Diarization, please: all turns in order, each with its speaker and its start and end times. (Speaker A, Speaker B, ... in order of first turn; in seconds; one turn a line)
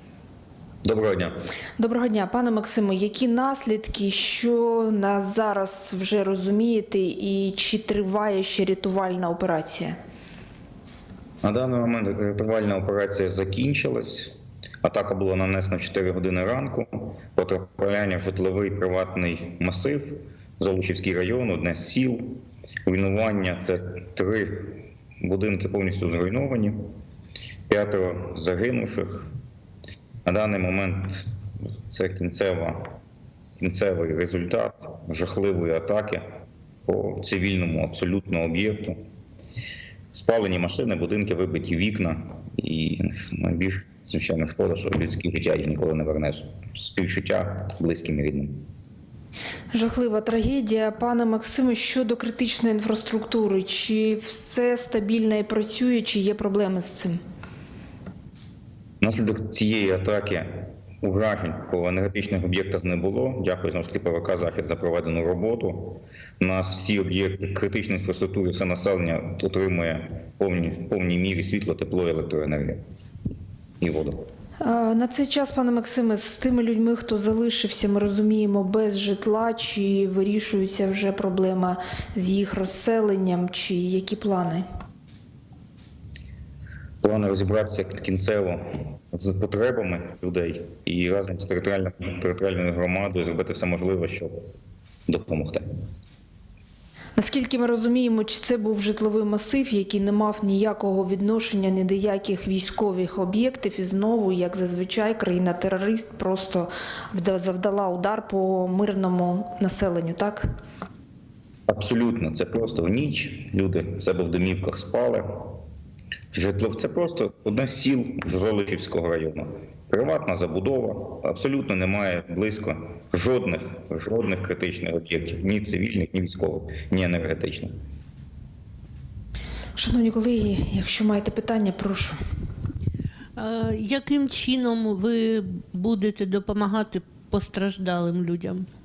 Speaker A: 0.8-1.4
Speaker B: 1.8-10.0
Speaker A: 11.4-26.8
Speaker A: 27.7-29.3
Speaker A: 30.2-31.2
Speaker A: 31.9-33.0
Speaker A: 33.6-36.2
Speaker A: 36.9-39.0
Speaker A: 40.1-48.6
Speaker B: 49.7-57.2
Speaker A: 59.0-72.8
Speaker A: 73.8-74.2
Speaker B: 74.6-84.6
Speaker A: 87.0-94.4
Speaker A: 95.1-95.6
Speaker B: 97.2-110.5
Speaker A: 111.7-115.6
Speaker A: 116.3-127.7
Speaker B: 129.8-132.2
Speaker C: 133.4-138.7